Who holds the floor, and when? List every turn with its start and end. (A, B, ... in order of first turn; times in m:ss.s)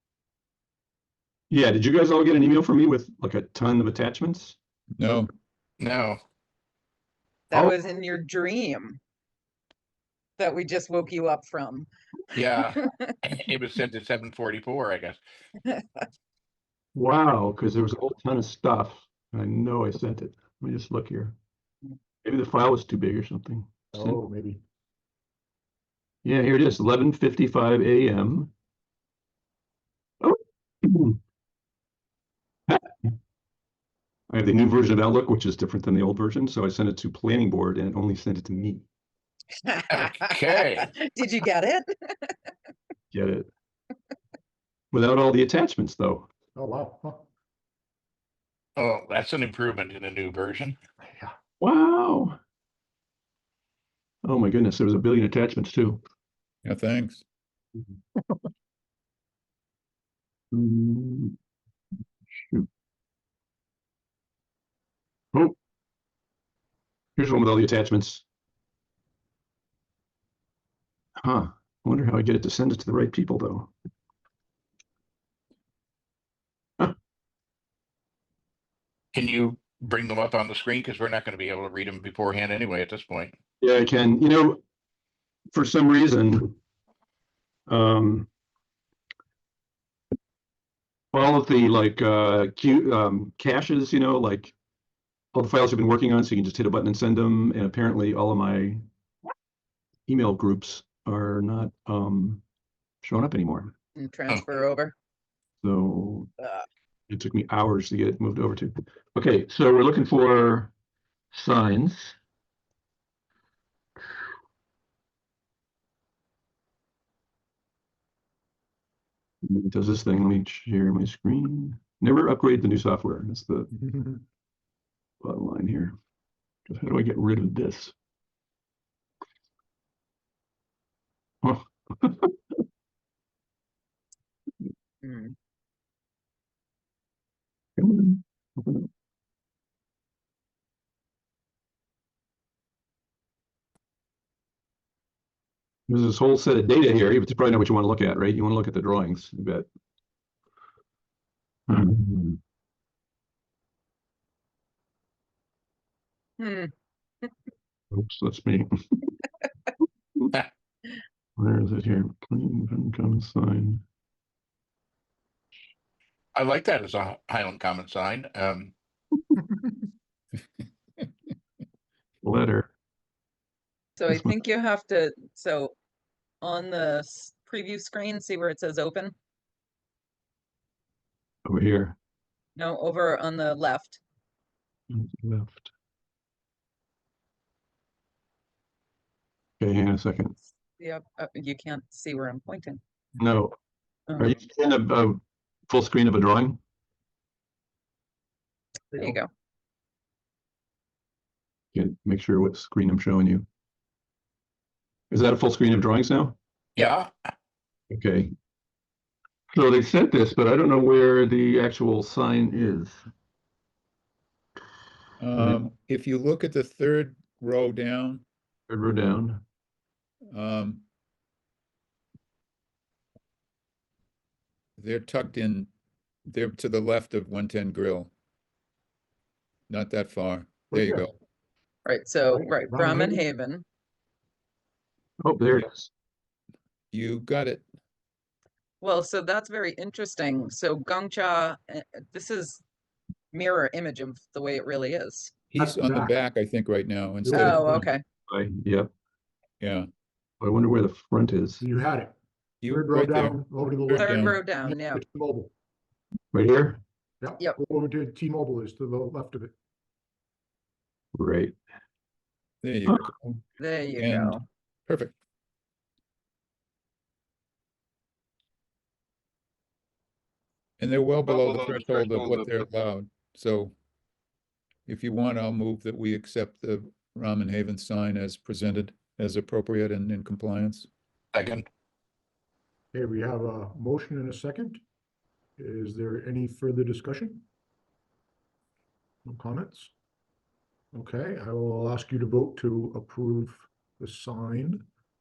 0:01.5-0:04.6 A
0:05.0-0:05.3 B
0:05.8-0:06.2 C
0:07.5-0:09.0 D
0:10.4-0:13.1 D
0:12.3-0:15.2 C
0:15.6-0:16.0 D
0:16.9-0:21.3 A
0:22.2-0:24.2 A
0:23.9-0:24.6 E
0:26.2-0:28.5 A
0:30.2-0:31.2 A
0:34.3-0:38.8 A
0:39.5-0:42.5 D
0:39.9-0:40.9 C
0:43.1-0:43.5 A
0:44.9-0:46.3 A
0:46.6-0:47.2 E
0:48.8-0:50.8 C
0:51.0-0:51.3 E
0:51.6-0:52.4 A
0:54.2-0:56.0 A
0:56.6-0:57.2 B
1:00.5-1:01.3 A
1:02.3-1:02.6 A
1:07.2-1:08.2 A
1:11.2-1:13.7 A
1:19.1-1:23.3 C
1:23.6-1:24.6 A
1:25.5-1:26.5 A
1:27.7-1:28.3 A
1:31.1-1:34.5 A
1:35.3-1:38.8 A
1:40.1-1:42.4 A
1:43.0-1:43.7 A
1:44.0-1:44.9 D
1:45.6-1:46.3 A
1:46.4-1:46.7 D
1:47.1-1:50.7 A
1:51.3-1:52.1 A
1:59.4-2:03.7 A
2:03.7-2:04.2 E
2:05.2-2:05.9 A
2:06.7-2:07.9 A
2:11.4-2:12.3 A
2:15.0-2:15.3 D
2:17.8-2:18.9 A
2:25.9-2:29.7 A
2:31.7-2:32.4 A
2:36.4-2:37.5 D
2:37.9-2:39.1 A
2:41.4-2:43.8 A
2:46.3-2:48.7 C
2:52.2-2:52.7 A
2:54.0-2:55.7 D
2:54.1-2:54.4 A
2:56.4-2:59.1 D
3:01.4-3:02.0 A
3:02.6-3:04.0 D
3:04.9-3:05.7 A
3:09.6-3:10.4 A
3:10.8-3:12.8 D
3:13.2-3:13.5 A
3:14.1-3:14.4 D
3:14.2-3:16.6 A
3:18.9-3:19.3 D
3:21.7-3:23.4 A
3:25.1-3:26.4 A
3:26.8-3:27.1 C
3:27.9-3:28.3 A
3:29.5-3:33.0 A
3:35.2-3:38.2 B
3:38.7-3:39.4 A
3:40.3-3:40.8 B
3:44.8-3:45.7 B
3:46.3-3:48.1 B
3:49.7-3:51.1 B
3:50.7-3:51.1 E
3:51.8-3:53.6 D
3:52.3-3:53.2 E
3:55.2-3:55.9 A
3:56.9-3:57.6 B
3:58.8-4:02.6 D
4:03.3-4:05.4 D
4:05.5-4:07.9 B
4:05.6-4:06.2 E
4:07.2-4:07.8 E
4:07.3-4:08.0 D
4:08.3-4:08.9 A
4:09.6-4:09.9 B
4:10.4-4:11.6 A
4:11.6-4:12.1 E
4:12.6-4:14.4 B
4:12.6-4:15.5 E
4:13.9-4:15.0 D
4:16.3-4:16.8 A
4:17.2-4:19.5 E
4:21.1-4:21.5 A
4:22.6-4:23.4 B
4:23.6-4:24.4 D
4:24.0-4:25.1 B
4:30.8-4:33.7 B
4:34.8-4:40.9 B
4:41.3-4:41.6 C
4:42.9-4:44.8 E
4:45.6-4:47.4 E
4:49.2-4:49.9 E
4:50.9-4:54.8 E